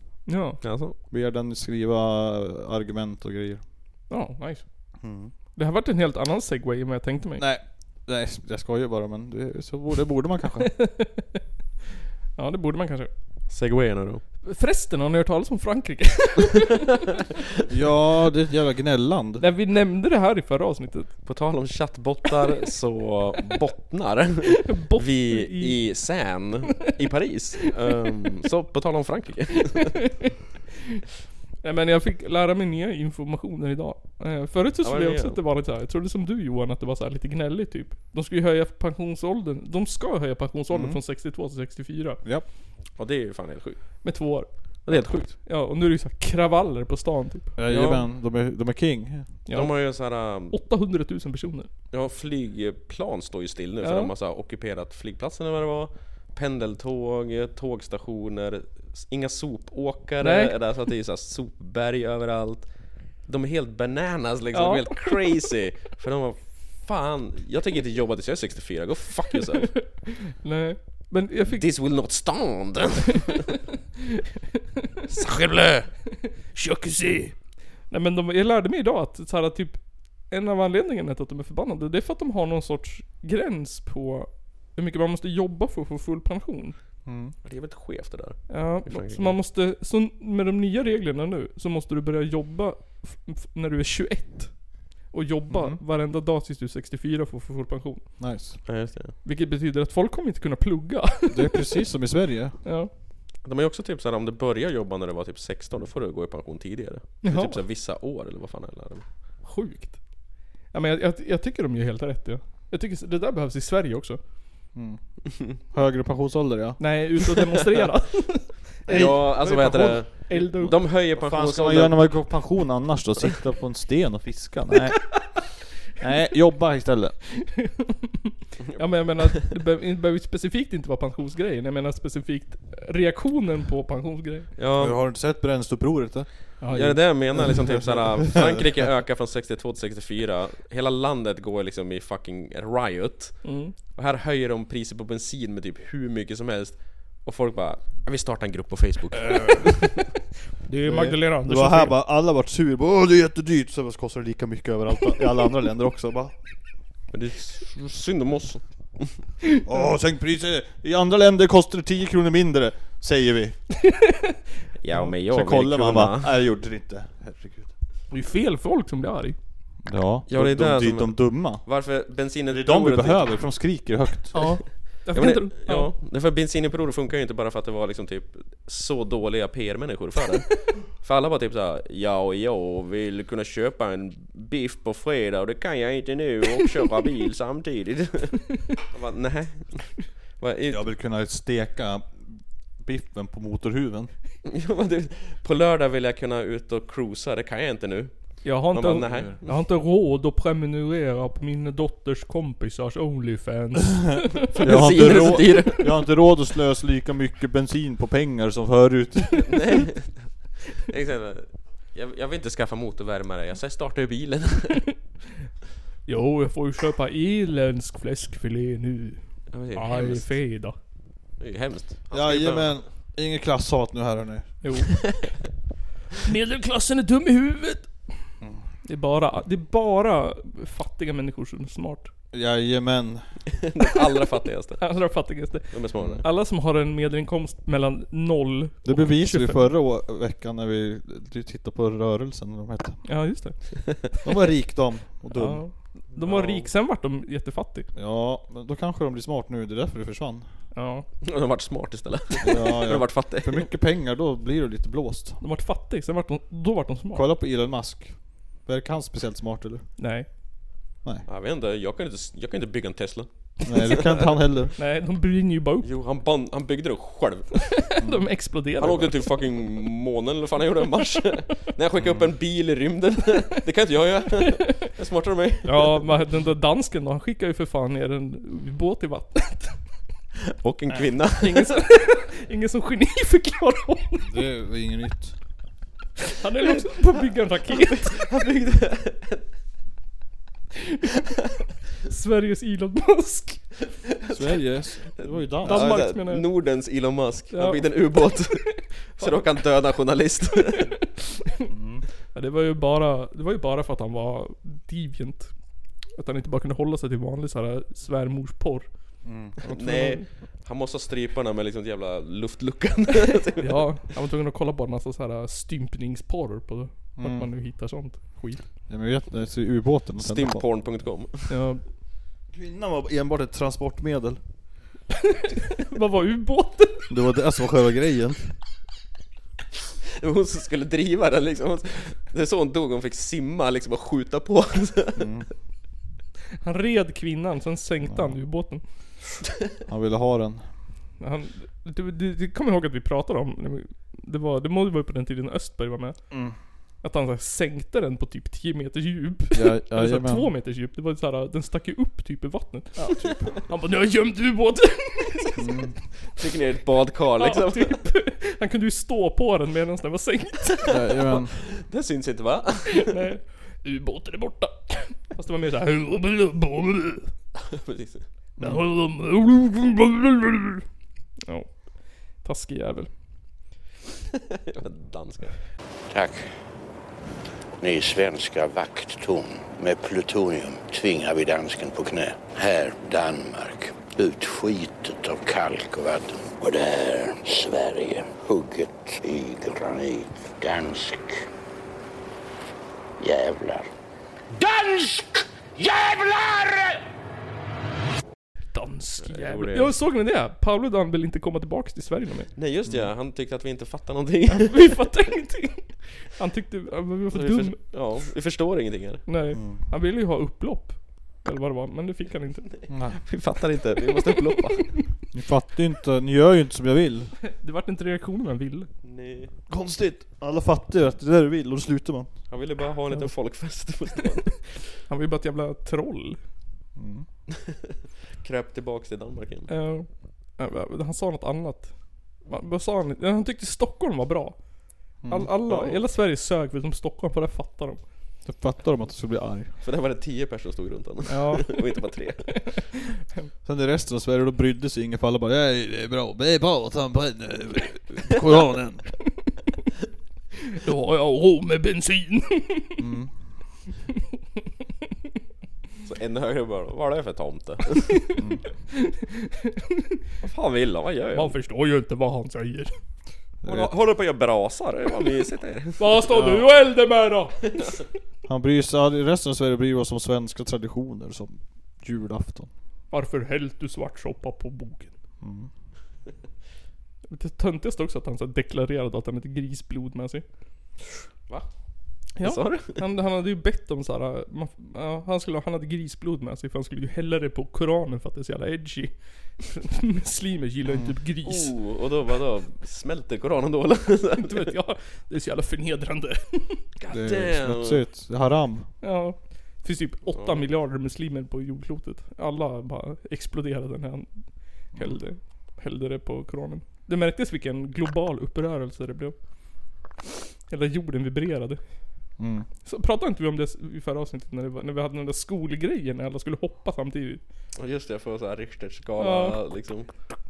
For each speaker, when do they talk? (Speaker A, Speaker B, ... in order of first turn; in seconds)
Speaker A: 0.3-0.6, 4.1-4.6, 5.5-7.4, 10.8-11.4, 12.4-13.1, 14.4-16.8, 19.4-21.1, 24.5-25.8, 31.6-42.2, 44.0-47.5, 49.5-51.7, 53.8-54.1, 60.2-60.5, 64.5-65.3, 69.7-71.7, 76.5-77.3, 77.9-79.8, 80.3-86.8, 88.5-98.0, 99.2-101.7, 102.6-102.9, 107.2-107.6, 109.4-110.0, 110.7-114.2, 116.8-120.7, 127.4-134.5, 136.6-137.0, 143.4-143.7, 150.6-151.9, 168.1-169.4, 174.3-175.9, 198.4-205.4, 216.1-219.2, 219.7-220.8, 224.6-225.1, 226.2-227.9, 228.8-232.1, 234.8-239.7, 243.0-243.9, 245.3-247.9, 250.7-251.1, 255.4-257.3, 260.0-260.3, 264.8-265.9, 267.9-269.2, 275.6-279.8, 281.4-284.3, 286.3-288.1, 292.0-293.7, 295.6-296.4, 297.5-298.0, 300.7-301.7, 302.3-305.5, 306.1-308.9, 309.6-310.2, 313.6-318.6, 321.5-321.8, 325.8-327.1, 336.6-338.8, 341.2-346.2, 347.0-353.1, 353.6-355.7, 357.4-360.9, 362.9-367.3, 368.6-370.8, 371.4-371.7, 372.4-373.1, 398.7-402.5, 404.5-407.8, 409.3-412.7, 414.1-415.0, 417.4-418.9, 425.1-426.4, 429.7-430.1, 430.6-431.9, 432.4-434.6, 435.3-438.0, 441.3-441.9, 442.5-443.5, 450.7-453.0, 458.9-460.2, 461.3-462.9, 466.0-467.6, 473.1-475.1, 477.3-480.4, 482.4-491.7, 494.4-496.8, 499.0-504.4, 504.9-509.3, 510.7-511.8, 512.8-517.4, 519.2-519.6
Speaker B: 0.6-1.0, 13.5-14.2, 21.2-30.0, 34.8-35.4, 43.0-44.0, 44.8-45.4, 47.7-48.0, 49.5-50.6, 51.9-69.8, 71.5-73.4, 75.1-75.9, 87.4-89.4, 98.7-99.1, 103.4-109.0, 118.9-122.4, 128.7-129.5, 134.6-135.0, 136.7-149.9, 157.1-159.2, 164.8-166.4, 170.3-173.4, 174.4-190.8, 194.4-199.5, 204.5-205.9, 209.5-214.8, 219.5-220.3, 221.4-222.8, 233.6-234.8, 235.7-236.2, 246.2-246.7, 251.2-253.7, 261.3-264.1, 265.8-267.8, 268.8-276.0, 280.6-281.7, 286.6-289.4, 294.1-294.6, 295.1-300.9, 309.6-314.0, 320.2-321.6, 330.2-335.4, 356.4-358.1, 360.8-363.1, 367.6-368.2, 374.7-375.6, 399.2-399.9, 402.6-405.1, 407.3-409.2, 413.1-414.9, 419.0-419.5, 422.5-424.8, 428.4-429.7, 435.7-436.0, 439.8-442.5, 456.0-458.2, 460.4-461.6, 463.6-466.2, 482.4-483.0, 491.4-494.7, 497.0-498.0, 500.3-500.6, 517.7-520.1
Speaker C: 1.1-3.6, 5.0-5.3, 7.4-10.7, 17.7-19.5, 40.7-41.0, 47.5-49.3, 87.0-87.3, 95.5-95.8, 98.2-98.6, 101.3-102.6, 114.7-116.8, 118.9-119.8, 120.8-127.2, 134.8-136.3, 137.4-138.6, 149.3-149.6, 150.8-156.3, 159.7-163.6, 164.9-167.7, 169.8-171.7, 172.5-174.5, 190.7-194.1, 199.1-199.3, 204.6-209.6, 222.1-224.6, 228.4-228.7, 232.3-233.2, 236.0-236.2, 238.8-243.0, 244.2-245.6, 247.9-250.5, 252.4-255.4, 257.1-259.8, 263.6-264.7, 268.0-268.3, 272.0-272.3, 284.2-285.4, 294.3-296.1, 301.7-302.0, 309.2-309.6, 317.2-317.5, 318.9-320.6, 322.5-324.4, 327.1-328.5, 335.1-335.5, 338.1-338.4, 339.9-340.7, 346.3-346.6, 349.5-350.5, 353.0-353.6, 355.6-356.0, 360.8-361.6, 368.6-368.8, 402.9-403.1, 409.5-409.8, 412.9-413.2, 415.3-417.3, 419.7-422.3, 426.9-427.3, 435.2-435.5, 438.4-439.7, 443.6-449.1, 453.0-453.3, 463.6-463.9, 466.3-466.7, 468.5-472.7, 475.4-475.7, 490.9-491.1, 497.1-498.9, 512.4-512.7
Speaker D: 376.1-376.5, 377.8-391.4, 393.2-393.9, 394.5-397.0